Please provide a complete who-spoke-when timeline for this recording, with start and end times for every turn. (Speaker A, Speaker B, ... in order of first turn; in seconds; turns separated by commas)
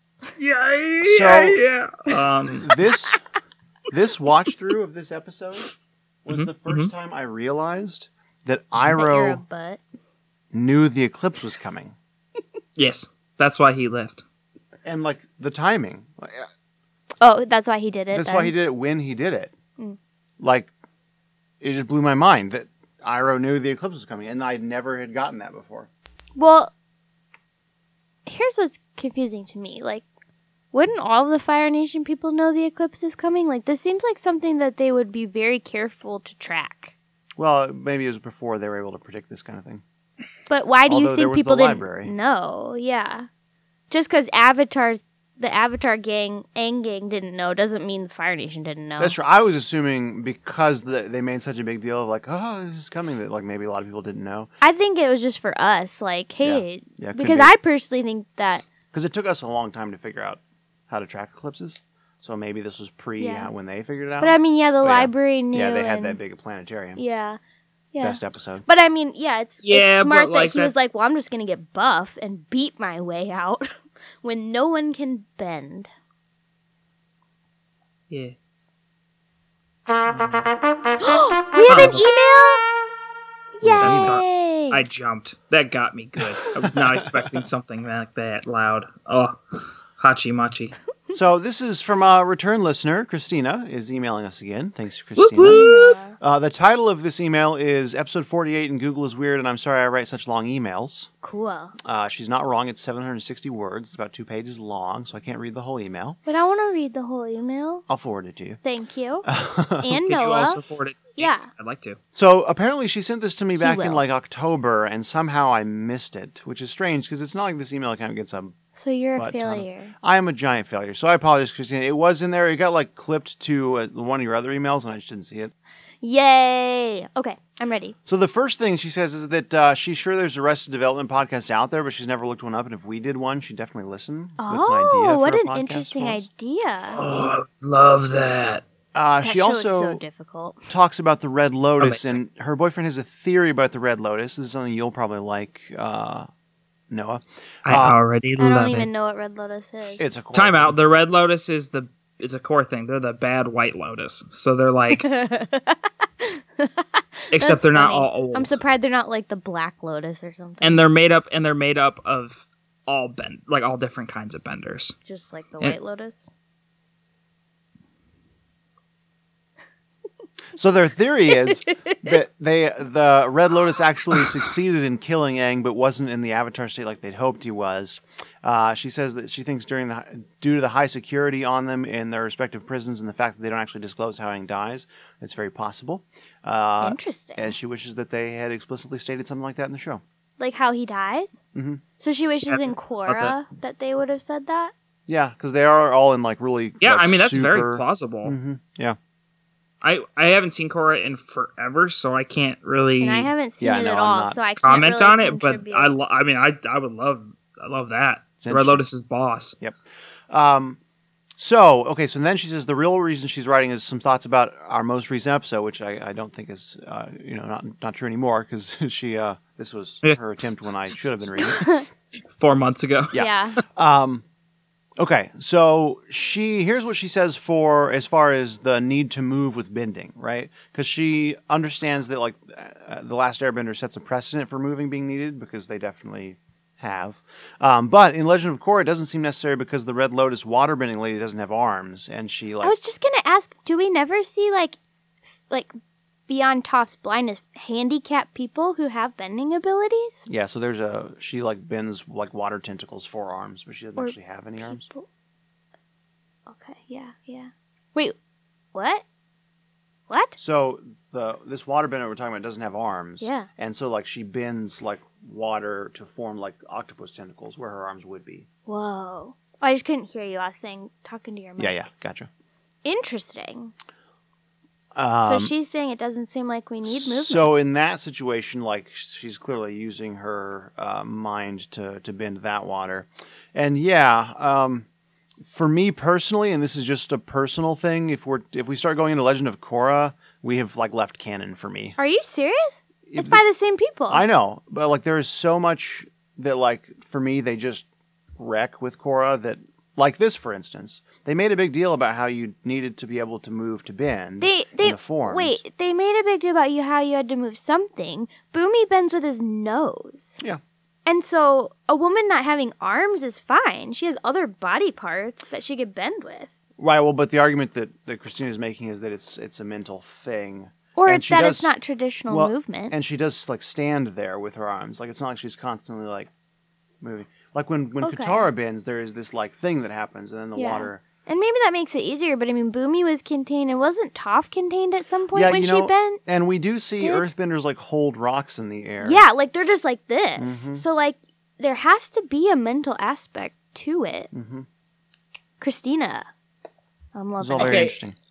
Speaker A: 0.4-2.7, Speaker B: 1.0-1.6, Speaker B: 2.6-3.2, Speaker B: 3.9-5.7, Speaker B: 6.2-9.4, Speaker A: 6.3-6.9, Speaker C: 8.9-9.8, Speaker B: 10.5-11.9, Speaker A: 12.8-14.2, Speaker B: 14.8-16.5, Speaker C: 17.2-18.5, Speaker B: 18.1-19.5, Speaker B: 20.4-20.7, Speaker B: 21.6-25.9, Speaker C: 26.4-26.7, Speaker C: 28.3-30.1, Speaker C: 30.7-36.9, Speaker B: 37.4-39.8, Speaker C: 40.5-43.3, Speaker B: 40.9-42.1, Speaker C: 43.9-49.2, Speaker B: 49.0-54.5, Speaker C: 54.6-58.6, Speaker B: 56.4-57.5, Speaker B: 58.9-67.0, Speaker C: 63.2-63.5, Speaker C: 64.2-66.2, Speaker C: 67.0-67.4, Speaker C: 67.9-73.7, Speaker B: 68.0-68.7, Speaker A: 69.6-70.7, Speaker C: 74.2-75.9, Speaker A: 80.0-80.5, Speaker C: 81.0-82.7, Speaker A: 81.7-82.0, Speaker C: 83.6-84.8, Speaker B: 83.6-84.2, Speaker A: 83.8-90.8, Speaker B: 86.6-87.1, Speaker B: 91.1-101.1, Speaker A: 95.2-96.0, Speaker C: 95.4-96.2, Speaker C: 101.2-101.8, Speaker B: 101.8-106.2, Speaker C: 106.3-107.8, Speaker B: 107.9-108.6, Speaker C: 108.6-109.3, Speaker B: 109.2-110.0, Speaker C: 109.8-110.6, Speaker A: 110.1-112.0, Speaker C: 111.2-111.5, Speaker B: 112.1-118.5, Speaker C: 113.6-114.0, Speaker C: 118.8-119.9, Speaker B: 119.2-125.5, Speaker C: 126.0-128.0, Speaker B: 128.1-136.3, Speaker C: 134.4-137.0, Speaker A: 136.9-138.6, Speaker B: 138.9-140.0, Speaker C: 139.2-140.7, Speaker B: 140.7-146.3, Speaker A: 141.8-142.2, Speaker B: 146.9-148.0, Speaker A: 147.7-148.9, Speaker C: 148.4-150.1, Speaker B: 150.0-150.8, Speaker A: 150.3-155.1, Speaker C: 154.9-160.8, Speaker A: 157.3-158.6, Speaker A: 160.6-164.9, Speaker C: 165.1-166.2, Speaker B: 170.6-190.0, Speaker C: 171.5-172.0, Speaker C: 186.8-187.6, Speaker C: 190.4-191.3, Speaker B: 191.5-191.8, Speaker C: 192.0-194.7, Speaker A: 192.5-193.3, Speaker B: 195.1-199.0, Speaker A: 196.8-198.4, Speaker A: 199.8-203.3, Speaker C: 203.0-205.9, Speaker B: 203.6-204.4, Speaker A: 204.6-209.6, Speaker B: 208.4-208.8, Speaker B: 210.3-210.8, Speaker B: 211.4-221.8, Speaker C: 221.5-221.8, Speaker A: 222.3-223.1, Speaker B: 223.1-224.2, Speaker C: 223.1-223.6, Speaker B: 225.0-242.8, Speaker C: 242.6-244.8, Speaker C: 246.3-250.2, Speaker B: 250.3-254.9, Speaker C: 254.0-255.1, Speaker C: 256.5-258.1, Speaker C: 258.7-259.0, Speaker C: 260.1-260.4, Speaker B: 260.4-268.5, Speaker C: 263.2-263.5, Speaker C: 268.7-271.8, Speaker B: 271.6-272.3, Speaker C: 272.9-273.7, Speaker B: 274.9-275.5, Speaker C: 275.2-277.5, Speaker B: 276.9-284.9, Speaker B: 285.4-292.0, Speaker C: 292.0-294.2, Speaker B: 293.1-293.4, Speaker B: 294.1-297.9, Speaker B: 298.4-305.6, Speaker C: 304.4-310.4, Speaker C: 311.1-316.5, Speaker B: 316.8-321.7, Speaker C: 321.0-322.9, Speaker B: 322.3-326.3, Speaker B: 327.0-331.0, Speaker C: 328.0-328.5, Speaker C: 330.6-336.2, Speaker B: 335.3-339.2, Speaker C: 337.0-337.3, Speaker C: 339.0-344.3, Speaker B: 340.4-340.8, Speaker B: 344.3-344.7, Speaker C: 345.6-346.3, Speaker C: 347.1-347.9, Speaker B: 347.4-348.2, Speaker A: 347.6-348.0